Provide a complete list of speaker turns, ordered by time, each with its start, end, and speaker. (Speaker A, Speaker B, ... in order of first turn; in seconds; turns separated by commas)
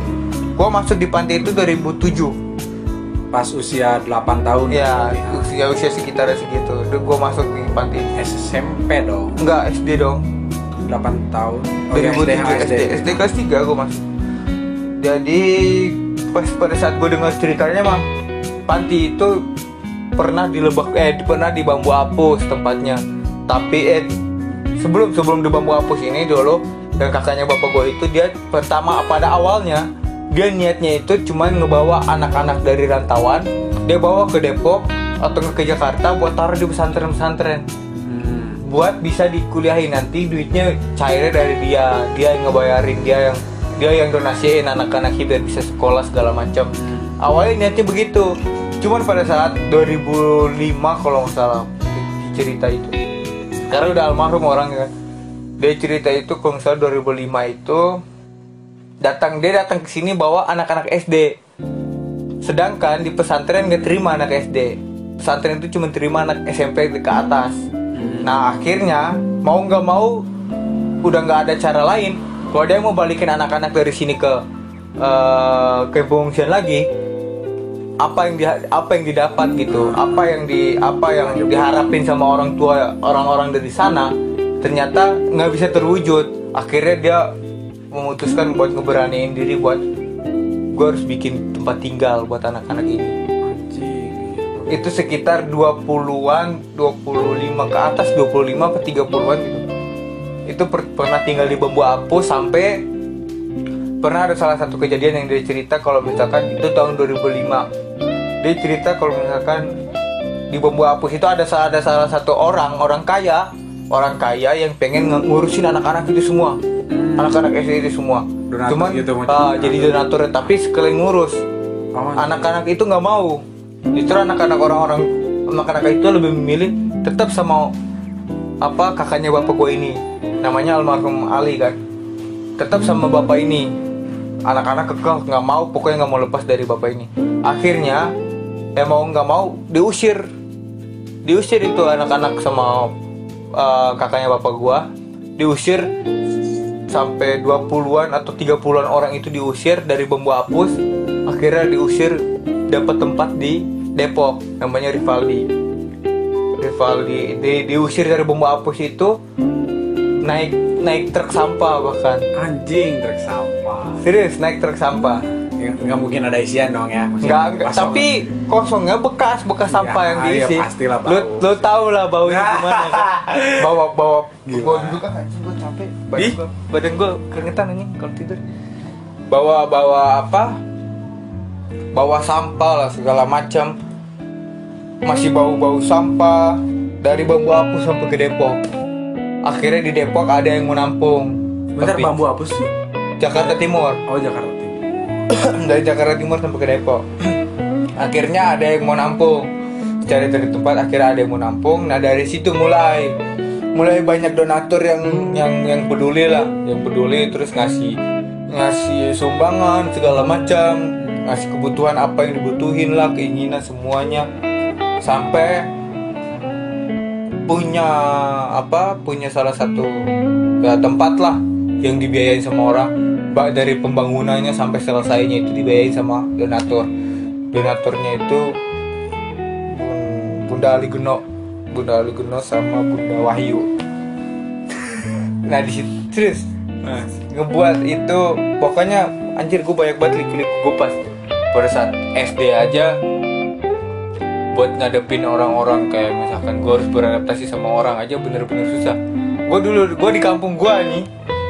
Speaker A: 0.6-2.4, Speaker B: 3.3-5.5, Speaker A: 4.7-8.1, Speaker B: 8.2-9.4, Speaker A: 9.4-10.2, Speaker B: 10.8-13.2, Speaker A: 11.9-14.0, Speaker A: 15.0-18.1, Speaker A: 18.7-19.4, Speaker A: 20.2-24.1, Speaker A: 24.8-37.6, Speaker B: 38.0-38.6, Speaker A: 38.6-48.3, Speaker B: 46.8-47.1, Speaker A: 48.8-53.0, Speaker A: 53.7-54.9, Speaker A: 55.6-58.0, Speaker A: 59.0-61.3, Speaker A: 62.4-67.6, Speaker B: 67.9-68.3, Speaker A: 68.2-70.2, Speaker A: 71.0-74.4, Speaker A: 75.0-76.8, Speaker A: 78.0-87.3, Speaker B: 79.7-80.3, Speaker B: 81.2-81.8, Speaker A: 87.9-89.8, Speaker A: 90.7-93.1, Speaker B: 93.4-94.8, Speaker A: 94.7-99.6, Speaker A: 100.5-102.8, Speaker A: 104.0-107.7, Speaker A: 108.4-109.7, Speaker A: 110.5-116.6, Speaker B: 116.9-117.4, Speaker A: 117.2-121.4, Speaker B: 118.5-120.0, Speaker B: 121.9-122.5, Speaker A: 122.2-123.4, Speaker A: 124.0-127.7, Speaker A: 128.6-131.8, Speaker A: 132.6-133.7, Speaker A: 134.5-138.1, Speaker A: 138.8-140.3, Speaker A: 141.2-142.9, Speaker A: 143.6-145.9, Speaker A: 146.9-150.8, Speaker A: 151.3-152.2, Speaker A: 152.7-155.4, Speaker A: 156.6-159.2, Speaker A: 160.2-162.3, Speaker B: 162.3-164.0, Speaker A: 164.0-165.2, Speaker B: 165.2-168.2, Speaker A: 167.2-178.4, Speaker B: 169.7-171.7, Speaker B: 172.2-173.8, Speaker B: 174.5-175.0, Speaker B: 176.1-176.4, Speaker A: 179.3-180.6, Speaker A: 181.9-183.8, Speaker A: 185.1-188.6, Speaker A: 189.4-192.2, Speaker B: 191.8-192.7, Speaker A: 193.2-194.0, Speaker B: 193.3-195.2, Speaker A: 195.3-197.1, Speaker A: 198.0-199.5, Speaker A: 200.1-203.2, Speaker A: 203.7-208.0, Speaker A: 208.5-214.3, Speaker A: 215.0-215.7, Speaker A: 217.5-220.0, Speaker A: 220.6-226.9, Speaker A: 227.5-228.6, Speaker A: 229.7-233.7, Speaker A: 235.4-236.5, Speaker A: 237.2-241.0, Speaker A: 241.5-242.9, Speaker A: 244.5-249.0, Speaker A: 249.5-251.1